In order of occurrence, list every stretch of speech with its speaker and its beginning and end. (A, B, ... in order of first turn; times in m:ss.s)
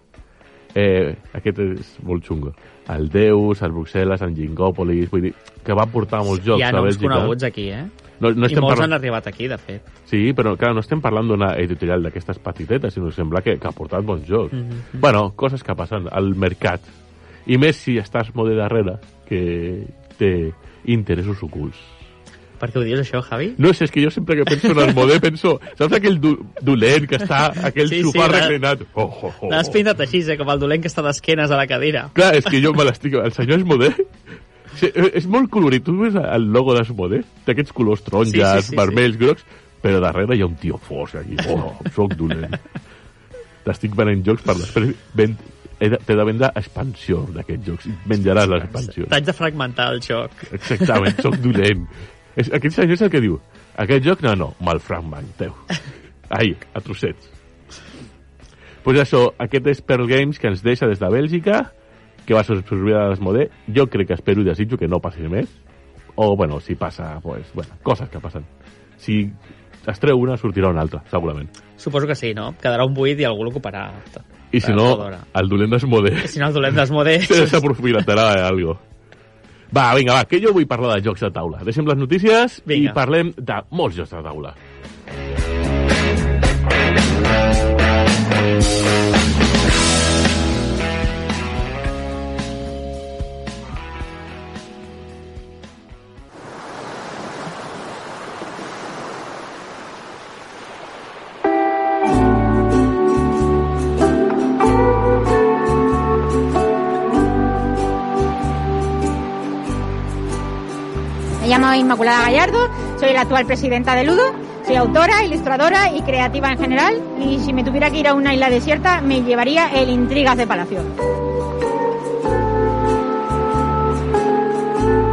0:00.7-0:07.4 A
0:06.4-0:07.9 B
0:08.2-0:08.9 A
0:08.4-0:09.9 B
0:10.1-0:16.9 A
0:14.5-0:15.0 B
0:17.4-0:21.9 A
0:22.6-0:23.6 B
0:23.6-0:29.8 A
0:27.8-0:28.6 B
0:29.4-0:32.2 B
0:32.1-0:34.1 A
0:34.7-0:42.6 A
0:38.2-0:39.0 B
0:43.6-0:49.2 A
0:48.6-0:51.2 B
0:50.5-0:55.6 A
0:56.3-0:57.3 A
0:58.8-1:01.7 A
1:02.2-1:05.5 A
1:06.2-1:11.5 A
1:11.8-1:15.2 B
1:14.5-1:16.4 A
1:16.2-1:17.6 B
1:17.2-1:18.8 A
1:19.7-1:24.6 A
1:22.7-1:23.0 B
1:51.4-2:00.9 C